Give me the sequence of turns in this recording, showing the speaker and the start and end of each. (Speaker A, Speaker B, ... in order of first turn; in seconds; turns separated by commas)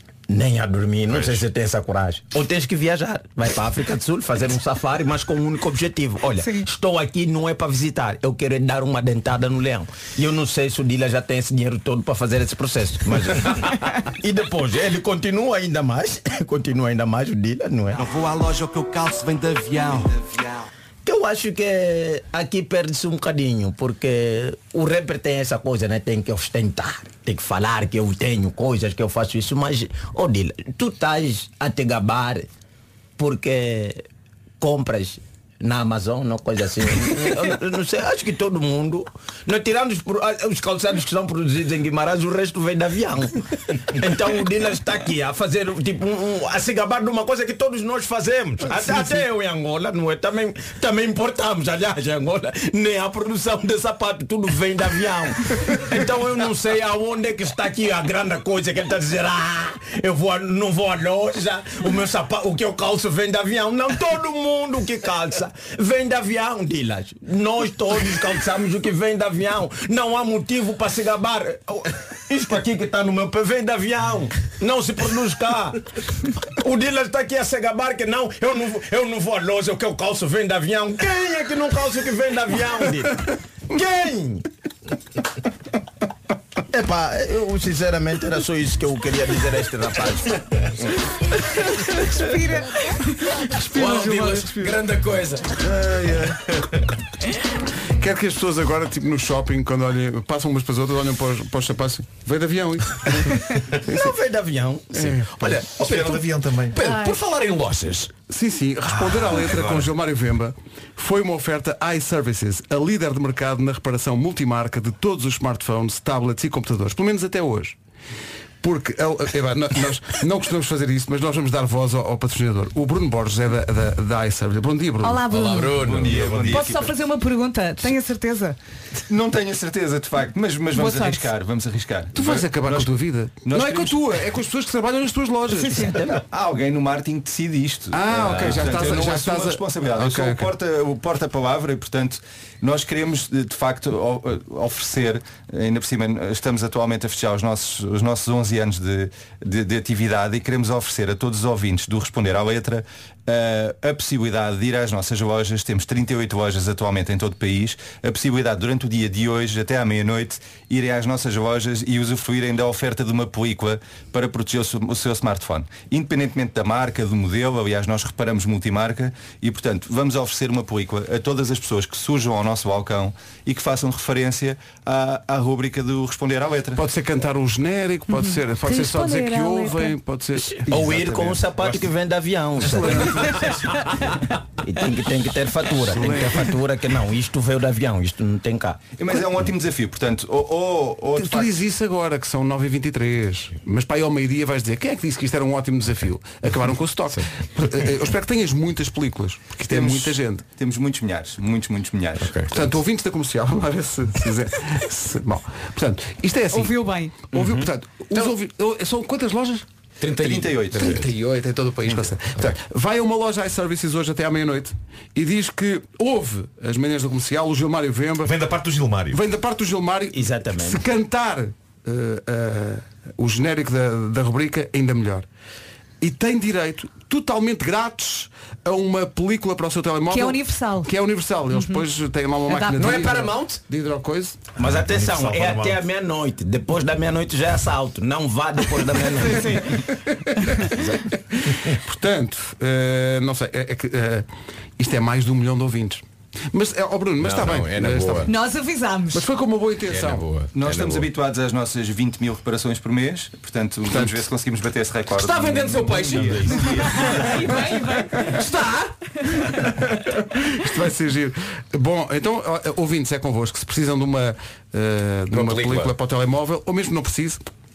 Speaker A: 0.3-18.0, Speaker B: 1.1-1.4, Speaker C: 6.4-6.7, Speaker D: 18.0-20.7, Speaker A: 21.1-32.5, Speaker A: 33.2-34.0, Speaker A: 34.6-75.8, Speaker A: 76.6-84.5, Speaker A: 86.7-90.9, Speaker C: 91.7-93.4, Speaker E: 93.5-94.8, Speaker F: 93.5-95.7, Speaker E: 95.6-96.5, Speaker E: 98.0-104.2, Speaker A: 103.9-105.0, Speaker E: 104.9-105.6, Speaker F: 105.3-108.1, Speaker B: 105.8-106.8, Speaker E: 108.3-117.8, Speaker B: 109.1-109.9, Speaker E: 118.6-125.3, Speaker C: 125.0-125.9, Speaker F: 125.3-126.6, Speaker G: 125.8-126.9, Speaker C: 126.4-128.6, Speaker G: 129.1-132.9, Speaker C: 130.7-131.3, Speaker E: 132.2-135.9, Speaker G: 133.4-134.1, Speaker A: 135.6-136.2, Speaker G: 136.3-176.8, Speaker E: 137.9-140.5, Speaker F: 138.2-138.9, Speaker E: 176.8-180.8, Speaker C: 178.1-179.9, Speaker A: 180.7-183.4, Speaker G: 180.7-181.8, Speaker E: 182.6-183.6, Speaker A: 184.6-188.8, Speaker E: 185.8-186.6, Speaker G: 188.9-191.5, Speaker E: 191.2-200.4, Speaker G: 199.7-202.3, Speaker F: 202.2-202.5, Speaker E: 202.5-209.7, Speaker C: 206.5-207.2, Speaker F: 207.3-208.3, Speaker F: 210.0-211.1, Speaker G: 210.1-210.9, Speaker E: 210.7-218.3, Speaker B: 218.2-219.2, Speaker E: 219.1-225.3, Speaker A: 220.1-220.8, Speaker E: 226.0-234.4, Speaker C: 230.1-230.9, Speaker C: 231.5-231.8, Speaker C: 232.5-232.9, Speaker F: 232.6-233.6, Speaker B: 234.6-235.8, Speaker A: 234.6-239.6, Speaker C: 239.3-239.6, Speaker C: 240.4-240.7, Speaker E: 241.4-244.3, Speaker E: 244.8-248.3, Speaker F: 247.2-248.3, Speaker C: 248.3-249.3, Speaker E: 249.1-250.3, Speaker F: 249.9-251.1, Speaker G: 250.5-257.0, Speaker E: 253.9-254.2, Speaker F: 255.1-257.4, Speaker B: 256.3-256.9, Speaker C: 256.9-258.4, Speaker F: 258.2-258.9, Speaker E: 260.5-267.5, Speaker F: 265.3-265.9